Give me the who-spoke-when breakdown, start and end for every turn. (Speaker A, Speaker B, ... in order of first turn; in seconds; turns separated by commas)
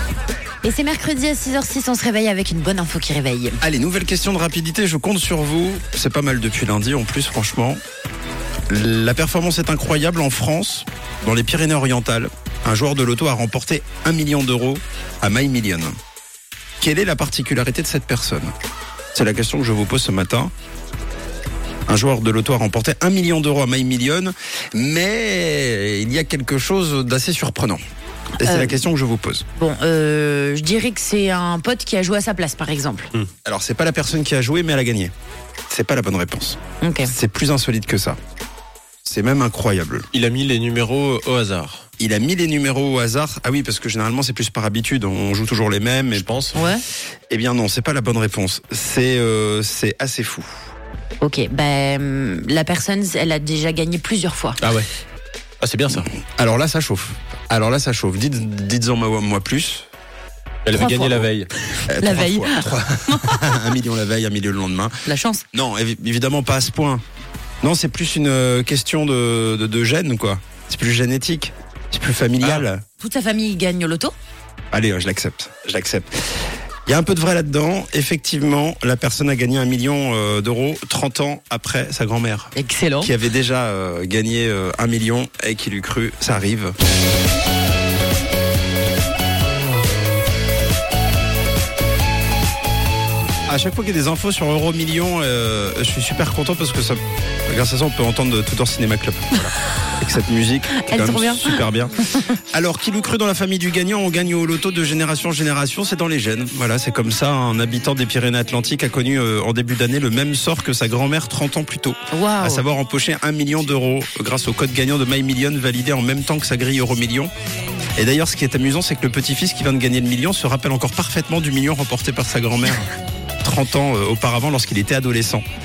Speaker A: 0.6-3.6, Speaker B: 3.6-7.8, Speaker B: 8.7-15.9, Speaker B: 16.8-18.5, Speaker B: 19.1-20.5, Speaker B: 21.9-27.8, Speaker B: 28.4-29.4, Speaker A: 28.4-28.8, Speaker A: 29.6-33.1, Speaker B: 33.4-35.1, Speaker B: 35.7-38.2, Speaker A: 36.8-37.1, Speaker B: 39.0-40.0, Speaker C: 40.1-41.8, Speaker B: 42.0-46.3, Speaker C: 46.1-46.7, Speaker A: 46.5-46.8, Speaker B: 47.3-50.5, Speaker A: 51.2-54.6, Speaker C: 54.6-54.9, Speaker C: 55.6-56.0, Speaker B: 55.9-59.8, Speaker C: 60.6-61.5, Speaker A: 60.7-63.6, Speaker B: 61.9-65.0, Speaker A: 65.0-65.4, Speaker B: 65.5-67.0, Speaker B: 67.6-72.8, Speaker C: 72.4-72.7, Speaker A: 73.0-74.1, Speaker B: 74.7-76.3, Speaker B: 76.9-86.7, Speaker A: 82.5-83.1, Speaker B: 93.5-117.3, Speaker A: 100.8-102.3, Speaker A: 112.1-112.6, Speaker B: 118.0-122.9, Speaker B: 123.4-125.4